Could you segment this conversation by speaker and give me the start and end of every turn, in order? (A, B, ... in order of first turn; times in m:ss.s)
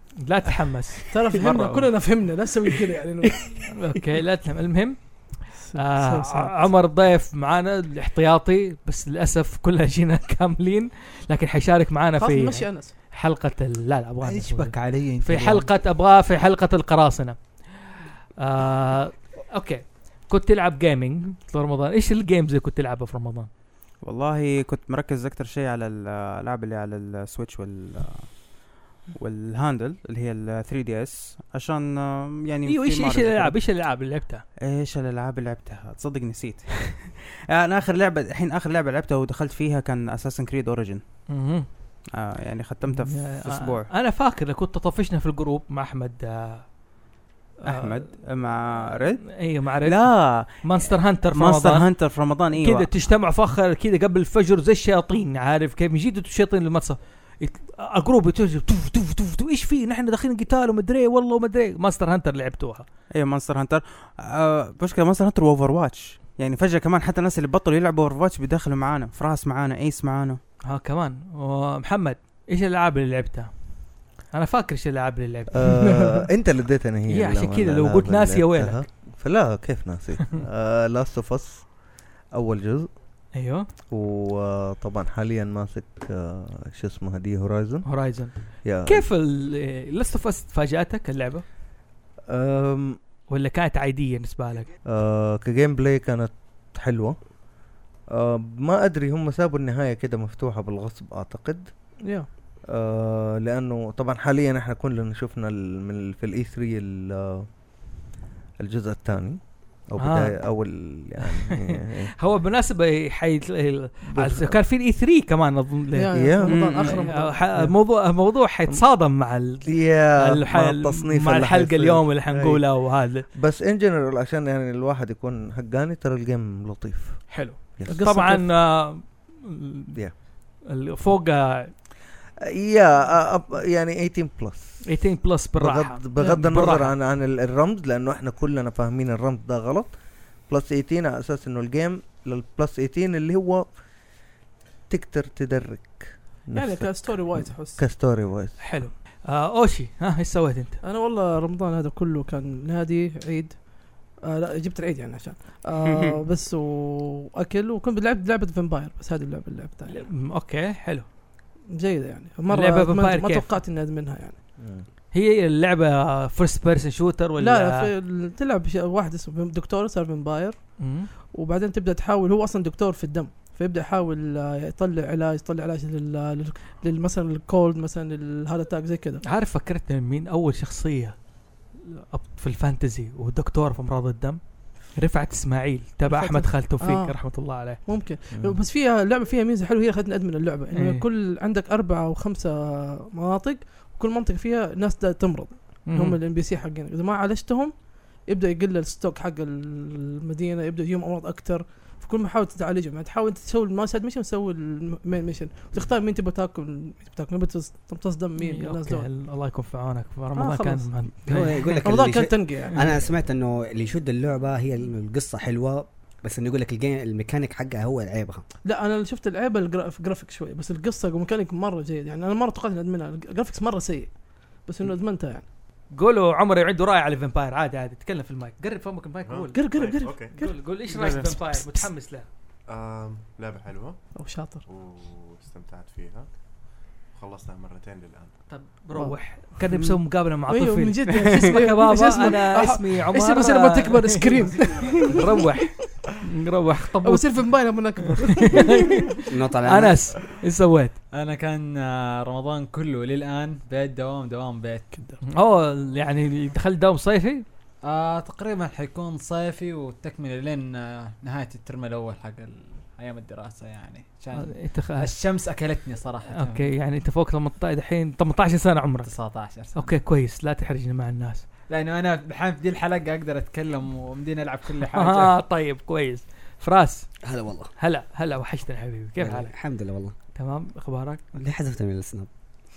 0:00.2-0:01.4 A
0:01.1-0:03.7 B
0:01.4-0:01.8 C
0:03.7-0:17.4 A
0:05.6-0:06.7 B
0:12.2-0:12.9 B
0:14.2-0:15.7 D
0:18.4-0:23.5 A
0:24.0-0:28.5 C
0:29.1-0:33.6 C
0:32.6-0:34.4 A
0:34.6-0:41.0 C
0:41.3-0:41.7 A
0:42.2-0:43.9 C
0:43.0-0:46.6 A
0:47.6-0:48.1 A
0:47.6-0:52.9 C
0:49.2-0:51.9 A
0:52.5-1:02.8 A
1:03.1-1:10.4 C
1:10.7-1:13.7 A
1:14.3-1:15.9 A
1:15.5-1:21.8 E
1:17.1-1:18.8 A
1:22.3-1:22.9 E
1:23.3-1:23.7 A
1:23.9-1:29.1 E
1:27.8-1:31.4 A
1:32.3-1:33.0 E
1:33.3-1:34.7 A
1:34.8-1:37.4 E
1:38.1-1:41.7 E
1:42.7-1:47.5 E
1:48.6-1:52.1 E
1:50.0-1:50.4 A
1:52.2-2:03.2 A
1:54.1-1:54.6 E
1:55.9-1:57.4 B
1:56.1-1:56.7 E
1:56.5-1:57.0 C
1:59.6-2:08.0 E
2:07.3-2:09.9 A
2:07.8-2:08.5 B
2:10.6-2:11.7 A
2:12.5-2:14.9 E
2:14.8-2:16.9 A
2:15.6-2:19.9 E
2:20.5-2:23.7 E
2:24.9-2:28.6 E
2:26.5-2:27.8 B
2:28.6-2:30.8 A
2:30.8-2:40.1 B
2:39.9-2:41.0 A
2:41.7-2:44.4 B
2:42.5-2:43.4 A
2:44.6-2:44.8 E
2:45.1-2:47.9 A
2:47.4-2:59.2 B
2:50.8-2:51.1 A
2:59.2-3:01.2 A
3:02.0-3:04.4 A
3:04.9-3:07.8 A
3:06.1-3:29.0 B
3:08.3-3:08.6 E
3:10.7-3:11.0 A
3:15.8-3:16.2 A
3:28.4-3:31.6 A
3:30.4-3:31.2 B
3:31.2-3:38.4 F
3:31.8-3:32.8 B
3:38.6-3:45.4 B
3:45.9-3:52.2 A
3:49.2-3:50.4 G
3:49.5-3:50.6 B
3:50.9-3:51.3 C
3:52.7-3:54.1 G
3:54.1-3:54.6 B
3:54.6-3:56.3 G
3:57.1-3:58.4 G
3:58.5-4:04.5 A
3:59.7-4:00.0 C
4:00.5-4:05.7 B
4:04.1-4:04.4 D
4:05.0-4:07.7 A
4:07.0-4:08.9 B
4:08.5-4:09.1 A
4:09.3-4:10.1 F
4:09.6-4:11.0 A
4:11.1-4:15.0 D
4:15.3-4:17.4 A
4:17.8-4:26.7 D
4:24.3-4:25.1 A
4:26.3-4:29.1 A
4:29.0-4:29.9 D
4:29.7-4:31.4 A
4:31.7-4:35.4 D
4:34.9-4:37.1 A
4:37.2-4:37.7 F
4:37.8-4:39.5 A
4:39.2-4:40.1 F
4:40.3-4:41.2 A
4:41.3-4:42.3 F